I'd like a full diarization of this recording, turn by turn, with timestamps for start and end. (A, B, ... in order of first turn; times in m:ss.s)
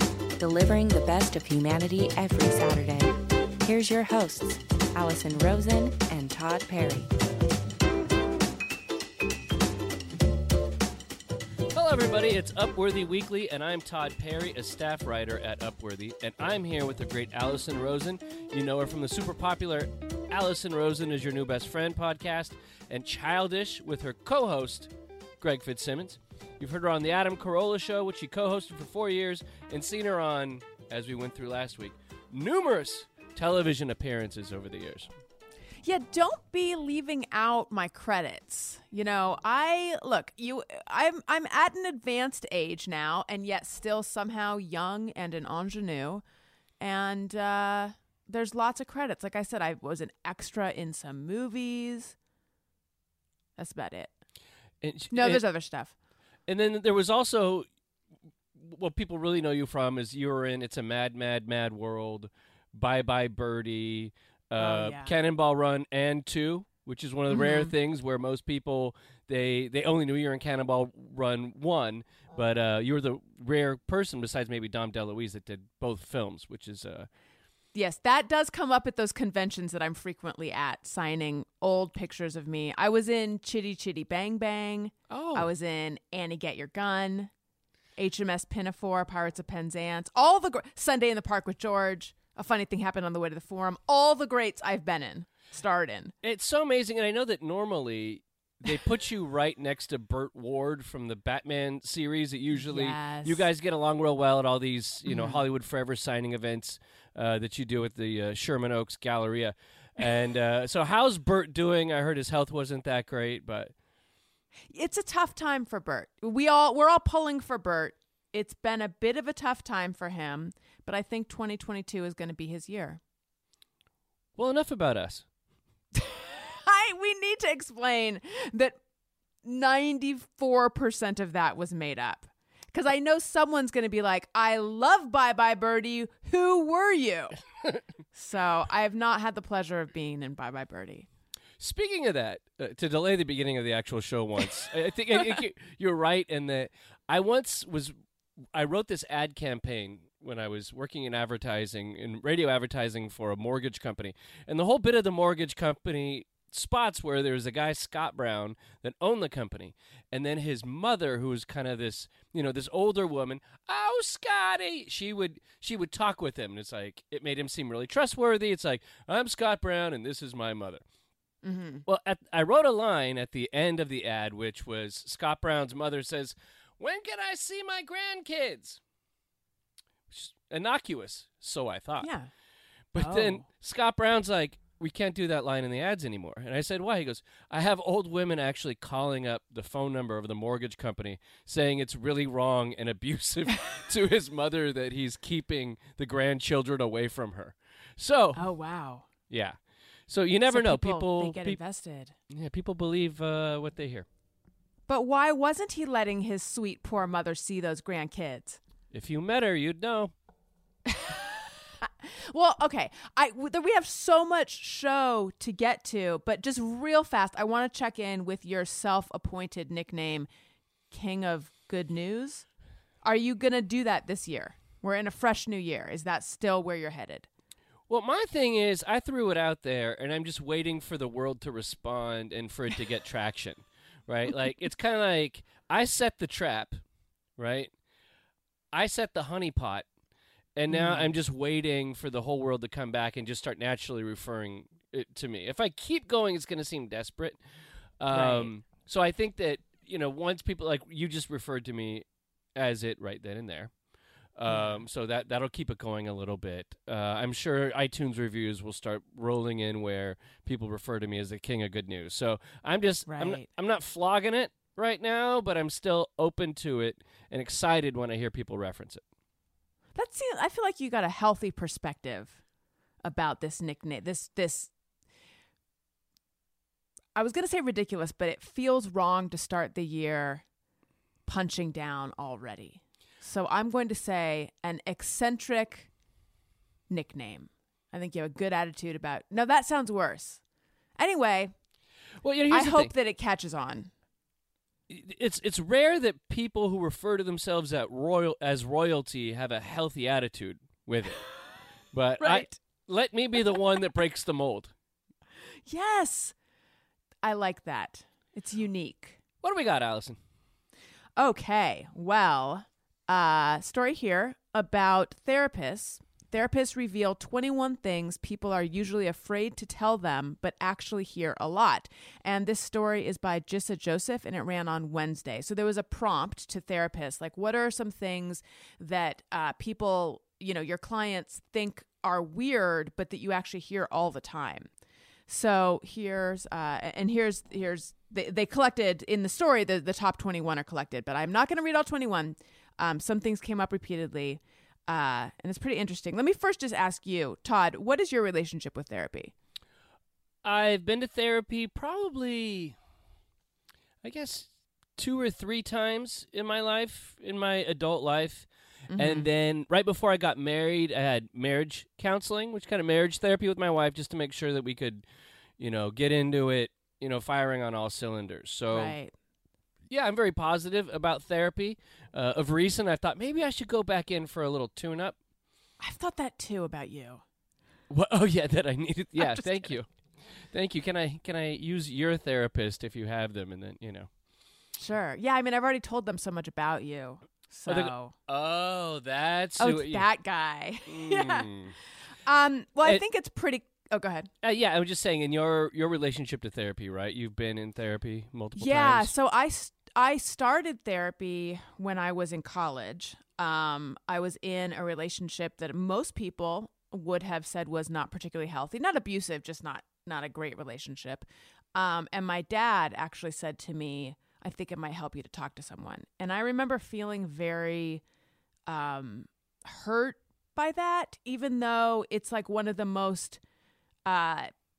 0:00.4-0:07.1 A
0:11.7-0:35.1 B
0:35.8-0:46.2 C
0:46.8-0:52.2 C
0:53.6-0:54.1 C
0:54.8-0:55.4 B
0:55.1-0:55.9 C
0:56.5-0:57.7 B
0:58.6-1:17.1 B
1:04.6-1:05.1 C
1:07.3-1:07.7 C
1:17.7-1:27.3 C
1:25.1-1:25.5 B
1:28.0-1:36.1 C
1:36.2-1:53.7 B
1:42.5-1:43.5 C
1:45.0-1:45.4 C
1:54.7-2:03.0 C
2:04.4-2:05.2 B
2:06.0-2:08.8 C
2:09.4-2:17.4 C
2:18.1-2:21.1 C
2:21.6-2:27.9 B
2:28.5-2:50.8 B
2:51.4-2:51.8 C
2:51.8-2:58.8 B
3:00.1-3:02.1 B
3:02.0-3:02.3 C
3:02.9-3:18.4 B
3:03.0-3:03.4 C
3:18.4-3:19.1 C
3:19.3-3:21.6 B
3:20.5-3:22.2 C
3:22.3-3:24.1 B
3:24.9-3:28.6 C
3:28.9-3:30.1 B
3:30.9-3:40.3 C
3:40.9-3:42.4 C
3:43.0-3:47.3 C
3:47.9-3:56.8 B
3:57.4-3:57.7 B
3:58.7-3:59.9 B
4:00.6-4:07.4 B
4:00.7-4:01.1 C
4:08.0-4:13.7 B
4:08.1-4:08.5 C
4:14.4-4:29.0 B
4:14.5-4:14.8 C
4:23.1-4:23.5 C
4:30.0-4:32.4 C
4:33.0-4:34.7 C
4:37.1-4:40.4 C
4:41.3-4:45.9 C
4:46.9-4:50.4 C
4:51.0-4:51.5 C
4:52.2-4:52.9 B
4:52.5-4:53.9 C
4:54.9-5:01.2 B
5:01.9-5:04.7 B
5:02.2-5:02.6 C
5:05.7-5:06.3 C
5:07.2-5:09.2 C
5:09.4-5:10.2 B
5:11.2-5:34.7 C
5:35.3-5:49.3 C
5:50.4-5:52.8 B
5:54.0-6:05.0 B
5:58.9-5:59.3 C
6:05.6-6:09.0 B
6:08.7-6:09.1 C
6:09.9-6:15.2 B
6:15.8-6:17.2 C
6:17.9-6:19.9 B
6:19.2-6:19.7 C
6:20.5-6:24.1 B
6:24.8-6:28.1 C
6:27.7-6:30.1 B
6:29.6-6:31.5 C
6:30.8-6:31.7 B
6:32.2-6:34.3 C
6:34.4-6:39.1 B
6:38.6-6:58.0 C
6:58.7-7:03.4 C
7:04.0-7:04.5 C